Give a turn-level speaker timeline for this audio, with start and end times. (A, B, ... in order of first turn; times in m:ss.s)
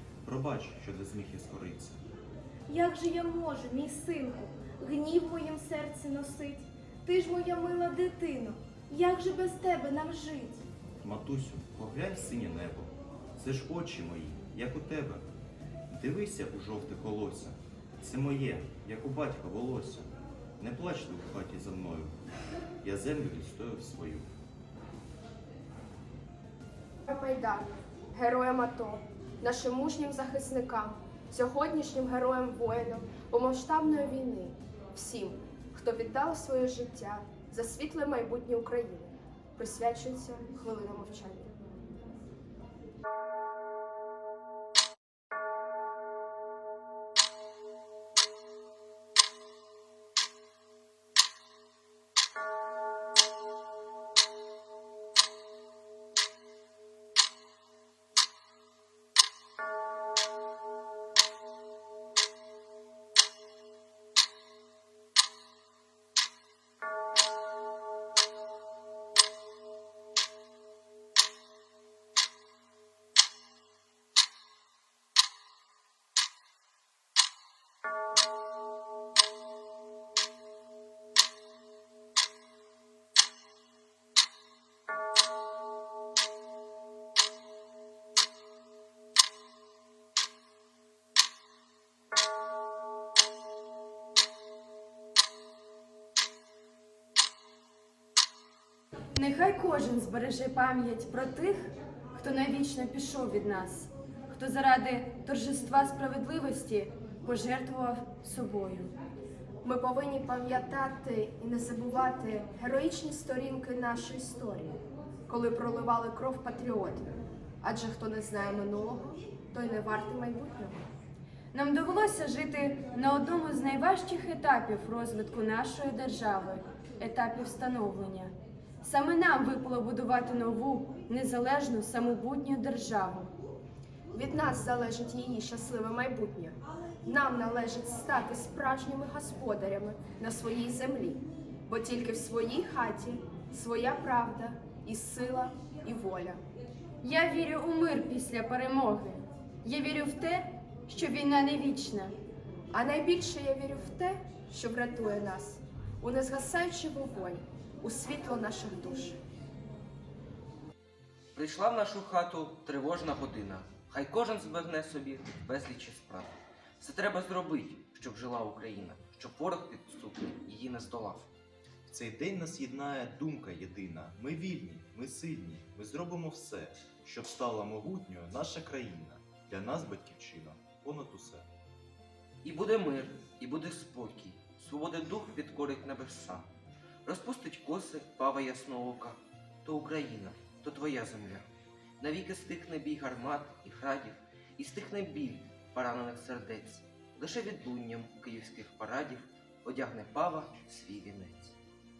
0:00.2-0:02.0 A
0:02.7-0:10.6 B
0:11.0-0:15.2 A
0:15.9-0:22.1 A
0:22.8-0:24.3 A
0:27.1-0:41.5 C
1:39.1-1:48.9 D
1:49.6-2:00.8 C
2:01.5-2:13.3 D
2:14.1-2:26.4 C
2:27.0-2:32.1 D
2:32.7-2:39.2 C
2:41.3-2:51.3 E
2:51.9-3:01.4 A
3:02.4-3:06.5 E
3:07.0-3:11.4 E
3:12.0-3:21.5 E